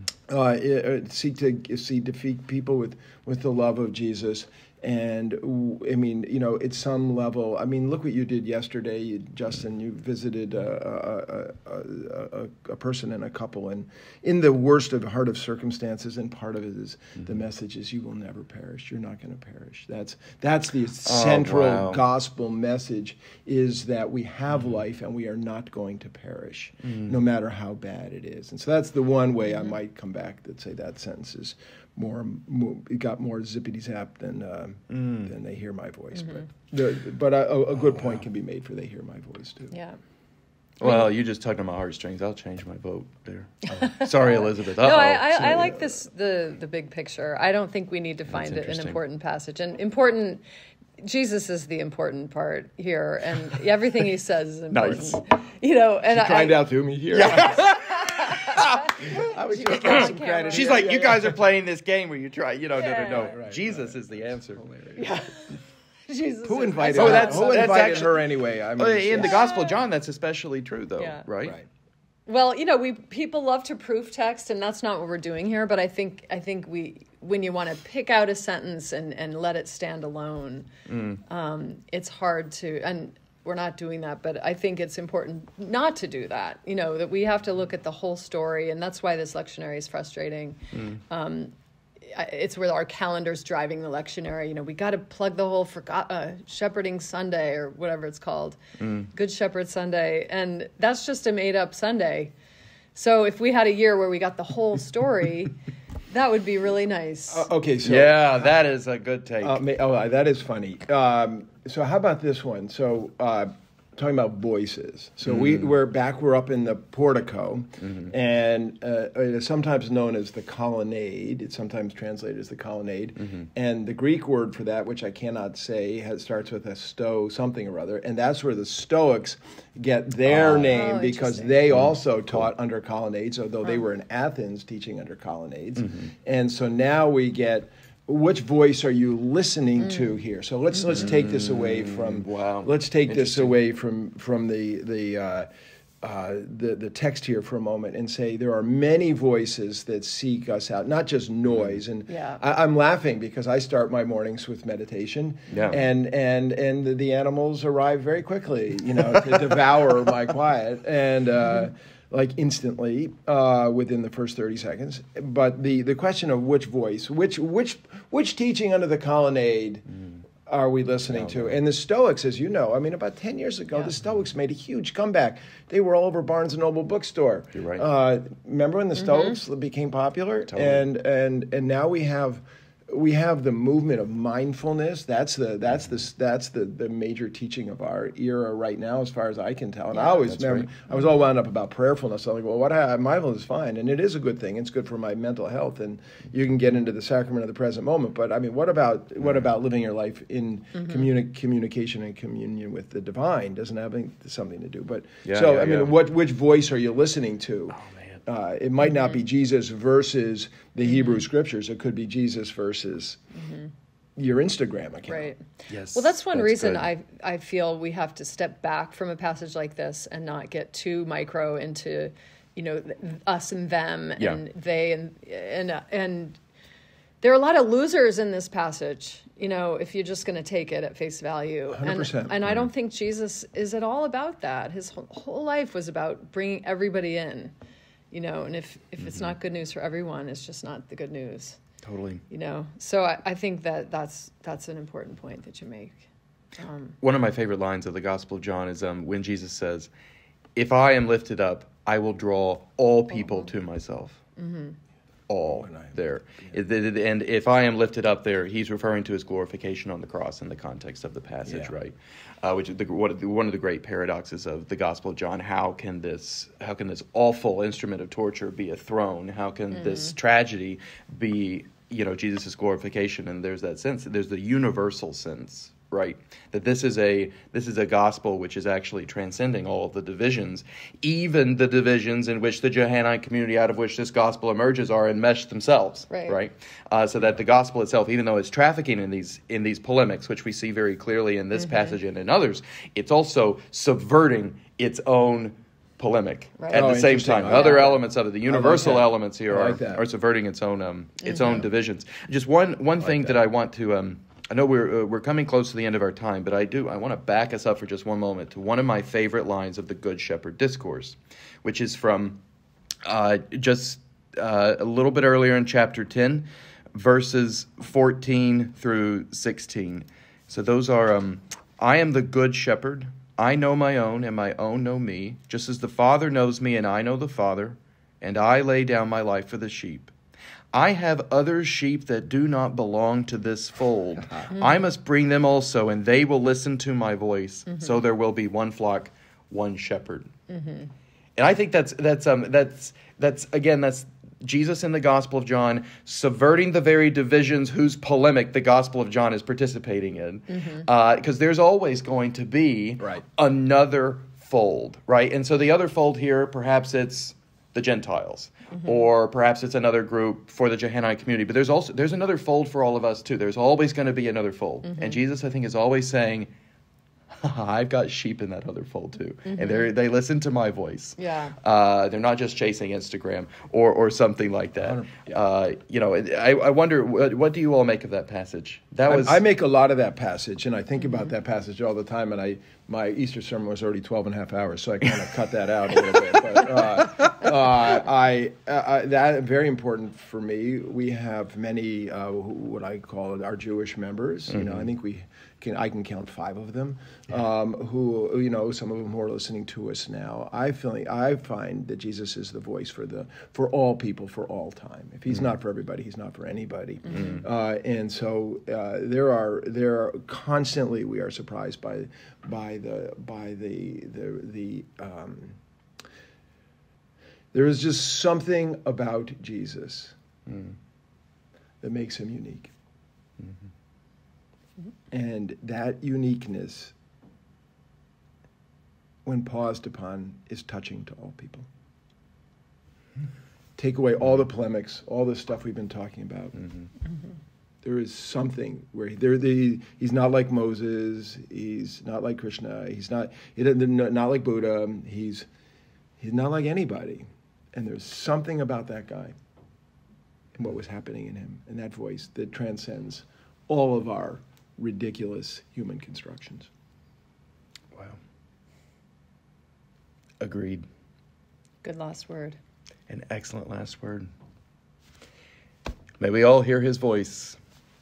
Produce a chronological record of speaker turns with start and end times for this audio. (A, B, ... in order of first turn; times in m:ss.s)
0:00.3-0:39.7 A
0:21.0-0:22.0 B
0:34.9-0:35.3 B
0:39.7-0:40.0 C
0:40.8-0:45.7 B
0:43.7-0:50.4 C
0:48.3-0:49.0 B
0:51.0-0:56.6 C
0:54.7-0:55.2 B
0:56.1-0:57.8 A
0:57.1-1:05.0 B
0:57.3-1:00.9 C
0:59.0-1:01.4 A
1:02.8-1:03.3 C
1:03.2-1:05.1 A
1:05.0-1:05.4 C
1:06.1-1:07.9 C
1:06.4-1:09.4 A
1:06.9-1:08.2 B
1:08.8-1:11.6 B
1:09.2-1:09.8 C
1:11.0-1:11.3 C
1:12.3-1:20.7 C
1:20.9-1:21.2 B
1:21.3-1:38.6 C
1:38.8-1:39.1 B
1:39.1-1:42.3 C
1:43.0-1:45.6 C
1:46.1-1:47.5 C
1:47.3-1:48.5 A
1:47.8-1:49.6 B
1:49.4-2:25.5 A
2:10.3-2:10.7 B
2:10.5-2:11.7 C
2:21.0-2:23.6 B
2:26.0-2:49.9 A
2:32.1-2:32.4 C
2:35.5-2:35.8 B
2:50.4-3:33.2 A
2:57.6-2:57.8 B
3:00.5-3:00.8 B
3:10.2-3:10.7 B
3:25.2-3:26.0 B
3:27.8-3:28.2 B
3:30.9-3:31.2 C
3:34.2-3:35.3 A
3:35.1-3:46.4 C
3:35.7-3:36.9 B
3:47.2-3:57.5 C
3:51.7-3:52.5 A
3:58.1-4:01.6 C
3:59.0-3:59.3 B
4:01.8-4:02.2 B
4:02.3-4:06.0 C
4:06.6-4:07.0 C
4:07.0-4:09.9 B
4:10.6-4:14.2 B
4:14.4-4:14.8 C
4:15.3-5:12.4 B
4:15.5-4:16.6 A
4:21.5-4:21.7 A
4:29.8-4:30.1 C
4:46.1-4:46.4 C
4:51.6-4:52.0 C
4:56.6-4:58.0 C
4:56.7-5:00.0 A
5:01.2-5:01.7 C
5:03.0-5:03.4 A
5:13.0-5:30.1 B
5:30.7-5:40.3 B
5:40.5-5:40.9 C
5:41.4-6:06.5 B
5:50.5-5:50.9 C
6:04.8-6:05.2 C
6:07.4-6:19.4 B
6:09.5-6:09.9 C
6:11.2-6:11.6 C
6:14.8-6:15.4 A
6:19.1-6:55.6 A
6:57.5-7:00.2 A
7:00.5-7:00.8 B
7:01.8-7:02.7 A
7:05.1-7:07.0 A
7:09.2-7:11.7 A
7:13.8-7:16.7 A
7:17.8-7:25.5 A
7:26.2-7:29.4 A
7:30.6-7:36.7 A
7:37.9-7:38.2 B
7:40.4-7:40.9 B
7:41.8-7:42.6 C
7:43.1-7:44.3 B
7:46.2-7:47.6 B